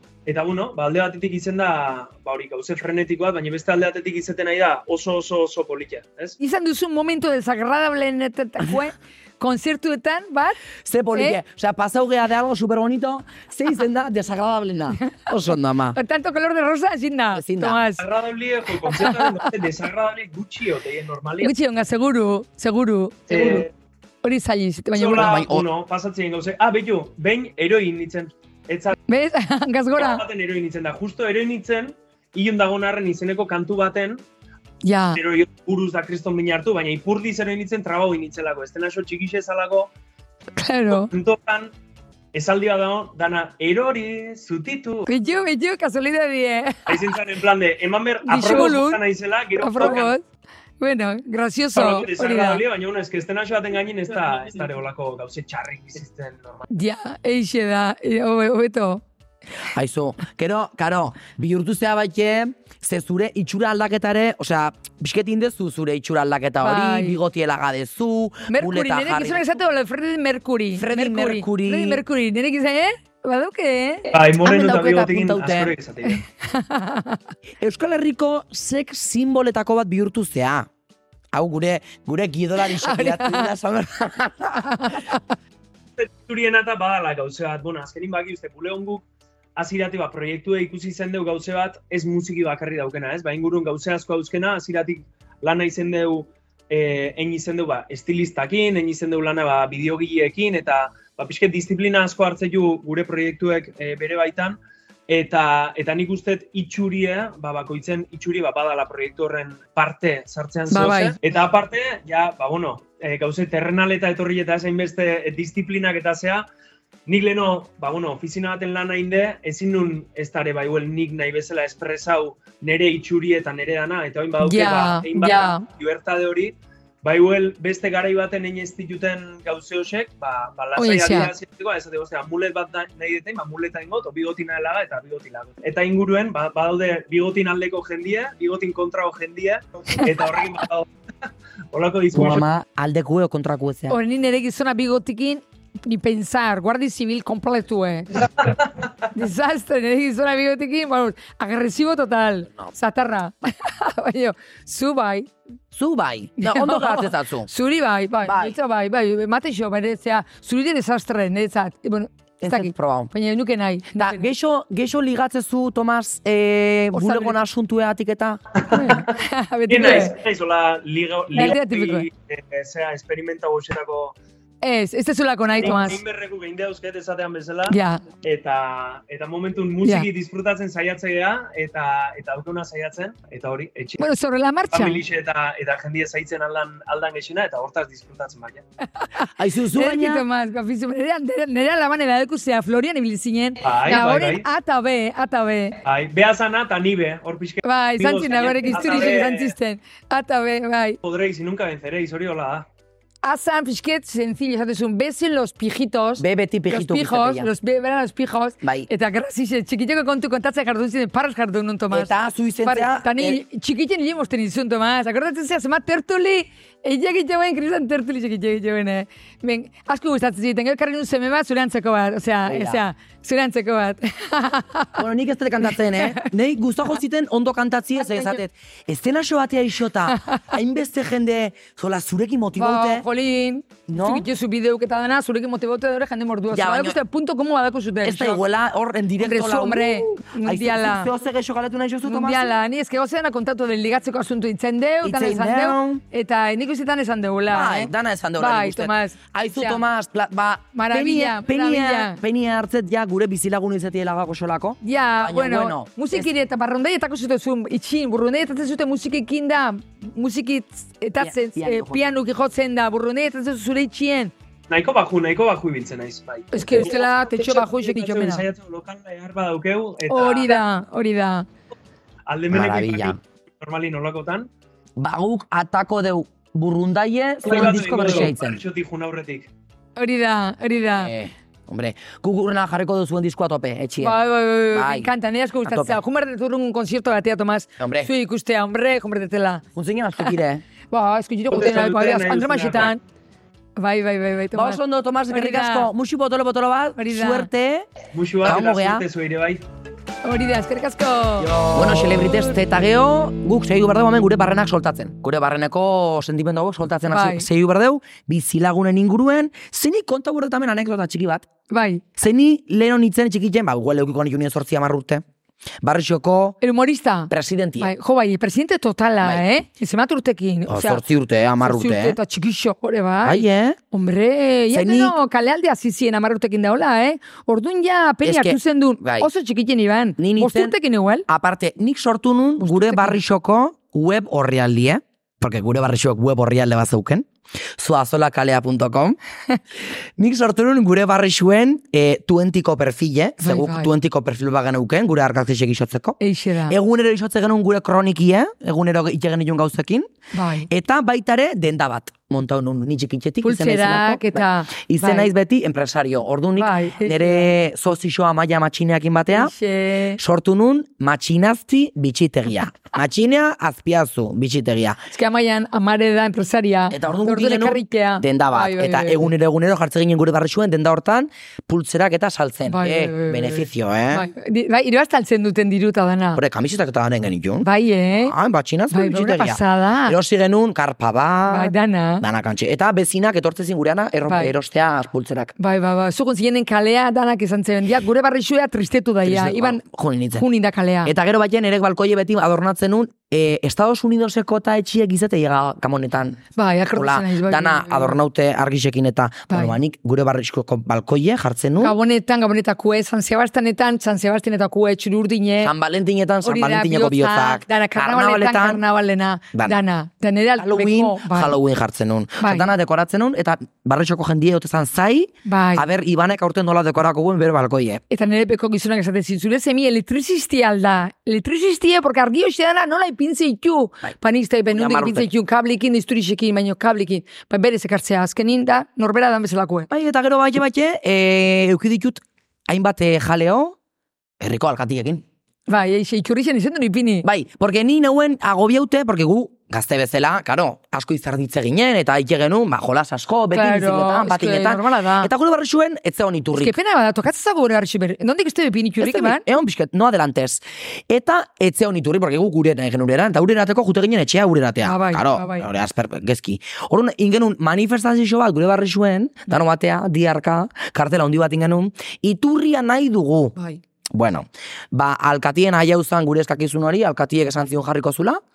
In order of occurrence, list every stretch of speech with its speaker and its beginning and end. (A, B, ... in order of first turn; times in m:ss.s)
0:00.2-0:06.4 A
0:06.4-0:10.6 B
0:10.8-0:16.0 C
0:15.9-0:18.0 B
0:17.3-0:17.8 C
0:18.0-0:21.5 A
0:18.9-0:19.3 B
0:21.4-0:23.6 B
0:23.3-0:23.7 A
0:24.2-0:25.3 B
0:24.9-0:29.0 A
0:25.2-0:25.6 C
0:29.1-0:30.2 B
0:30.0-0:34.2 A
0:34.8-0:35.2 B
0:35.1-0:39.9 A
0:40.6-0:41.1 B
0:40.9-0:41.7 A
0:42.3-0:45.1 A
0:45.1-0:47.0 B
0:46.9-0:50.1 A
0:48.2-0:49.0 B
0:49.6-0:50.2 B
0:50.8-0:52.6 B
0:51.8-0:56.7 A
0:56.7-0:59.0 B
0:59.7-1:09.5 C
1:06.6-1:07.2 B
1:08.5-1:14.1 B
1:10.7-1:12.0 C
1:14.1-1:16.2 A
1:14.3-1:15.7 C
1:16.4-1:17.2 B
1:17.6-1:20.7 C
1:21.3-1:25.0 C
1:22.6-1:23.5 B
1:24.7-1:25.2 B
1:26.0-1:29.0 A
1:29.6-1:56.4 A
1:50.7-1:51.2 B
1:57.1-2:20.9 A
2:04.4-2:05.6 B
2:10.8-2:11.3 B
2:21.7-2:22.4 A
2:22.1-2:24.0 C
2:23.9-2:28.5 B
2:29.1-2:35.3 B
2:35.7-2:37.5 C
2:36.4-2:44.2 B
2:38.2-2:38.6 C
2:42.4-2:43.1 C
2:44.0-2:48.4 C
2:46.9-2:47.4 B
2:48.6-2:49.1 A
2:48.7-2:50.2 B
2:49.7-2:54.2 A
2:51.3-2:52.1 B
2:54.6-2:56.0 B
2:55.6-3:04.0 A
2:57.7-2:58.0 B
3:04.0-3:05.0 B
3:04.7-3:08.6 A
3:09.0-3:15.8 B
3:09.4-3:10.2 C
3:13.6-3:14.4 A
3:15.8-3:19.5 A
3:17.6-3:21.0 B
3:21.0-3:22.6 A
3:23.2-3:32.1 B
3:26.2-3:27.5 C
3:28.6-3:28.9 C
3:31.9-3:33.4 C
3:32.6-3:45.0 B
3:42.4-3:42.8 C
3:45.0-3:53.0 C
3:46.0-3:46.3 B
3:48.0-3:48.4 B
3:52.6-3:58.4 B
3:53.9-3:54.3 C
3:56.5-3:57.0 C
3:58.0-4:02.6 C
3:59.2-4:01.1 B
4:02.0-4:09.8 B
4:05.0-4:06.0 C
4:07.5-4:16.3 C
4:10.7-4:12.2 B
4:14.8-4:24.3 B
4:21.2-4:22.0 C
4:24.7-4:30.6 A
4:26.5-4:28.5 B
4:30.1-4:31.5 B
4:32.3-4:34.5 A
4:32.5-4:33.2 C
4:35.0-4:38.6 C
4:37.4-4:39.5 A
4:40.0-4:41.1 B
4:41.0-4:44.2 C
4:44.0-4:49.6 B
4:44.7-4:45.1 C
4:45.6-4:46.0 C
4:47.8-4:48.1 C
4:49.8-4:50.6 C
4:50.9-4:53.0 B
4:51.5-4:52.9 A
4:53.8-4:55.9 B
4:54.5-4:57.9 C
4:57.0-4:57.5 B
4:58.1-4:59.6 A
4:58.4-4:59.0 C
5:00.2-5:02.2 B
5:01.4-5:11.5 C
5:07.1-5:07.5 B
5:11.7-5:12.0 B
5:12.2-5:15.2 C
5:15.8-5:16.6 C
5:16.6-5:21.0 B
5:17.3-5:17.9 C
5:20.7-5:22.2 C
5:21.6-5:31.2 B
5:23.2-5:23.8 C
5:24.7-5:25.2 C
5:28.2-5:29.3 C
5:30.2-5:30.8 C
5:31.3-5:39.2 C
5:32.6-5:33.2 B
5:40.2-5:50.1 C
5:43.4-5:43.9 B
5:46.2-5:46.8 B
5:50.3-5:50.7 B
5:50.7-5:59.5 C
5:53.4-5:55.3 B
5:56.6-5:57.5 B
5:59.3-6:00.2 B
6:00.2-6:05.0 C
6:05.1-6:09.3 B
6:06.9-6:14.3 C
6:12.7-6:16.4 B
6:16.3-6:17.7 C
6:17.6-6:18.3 B
6:18.2-6:25.5 C
6:18.9-6:20.2 B
6:21.5-6:22.2 B
6:24.3-6:24.5 B
6:25.6-6:29.8 B
6:29.2-6:30.5 C
6:30.4-6:31.1 B
6:31.0-6:42.0 C
6:36.6-6:38.2 B
6:39.5-6:39.8 B
6:41.8-6:45.7 B
6:45.6-6:48.8 C
6:46.4-6:51.5 B
6:50.6-6:58.0 C
6:52.4-6:52.7 B
6:55.5-6:55.8 B
6:58.1-7:09.9 B
7:04.7-7:05.3 C
7:09.9-7:13.8 C
7:14.4-7:15.2 C
7:15.7-7:17.3 B
7:17.2-7:26.8 C
7:23.5-7:25.3 B
7:26.6-7:29.5 B
7:29.0-7:43.5 C
7:34.8-7:35.7 B
7:43.6-7:43.8 B
7:44.1-7:48.4 C